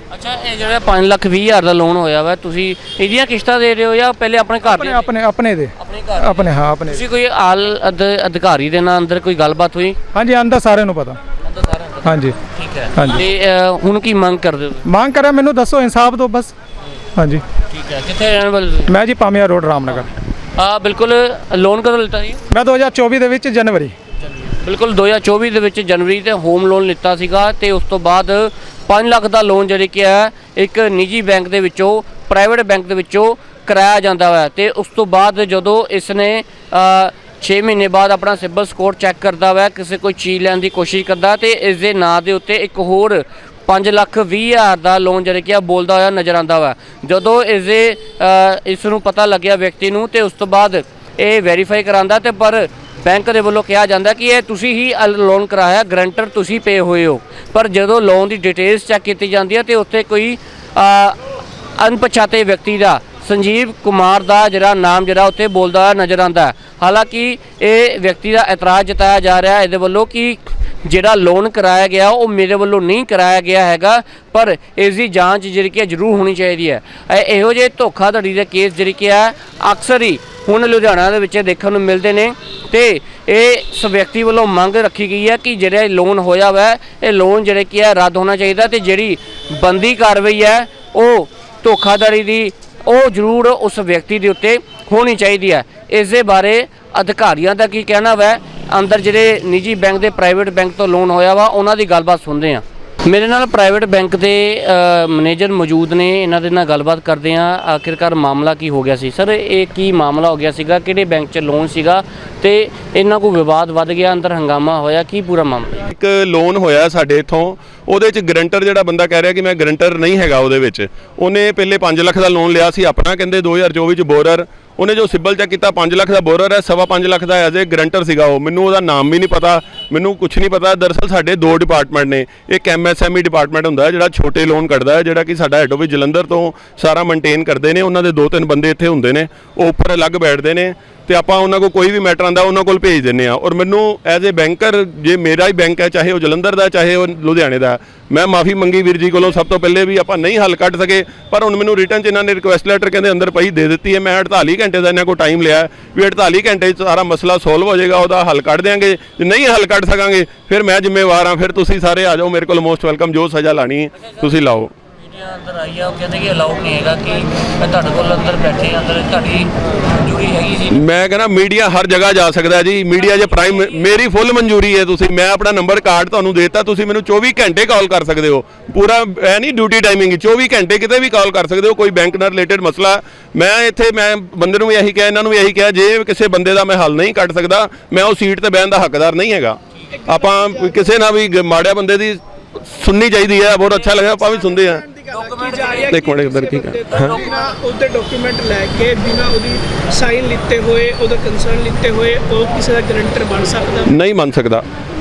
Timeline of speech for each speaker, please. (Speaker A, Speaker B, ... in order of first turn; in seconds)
Speaker A: 0.1-5.1, 5.8-10.0, 11.4-14.8, 17.7-18.9, 20.6-22.4, 24.2-61.2, 61.8-115.8, 165.0-170.8, 173.2-173.7, 193.6-194.1, 195.1-195.9, 196.9-197.6
Speaker B: 4.6-7.0, 10.1-11.2, 12.0-12.3, 12.9-13.2, 14.8-16.5, 17.1-17.4, 18.9-20.1, 22.5-23.9
Speaker C: 115.8-164.7, 170.7-194.8, 195.9-197.2, 203.9-204.6
Speaker D: 195.0-203.9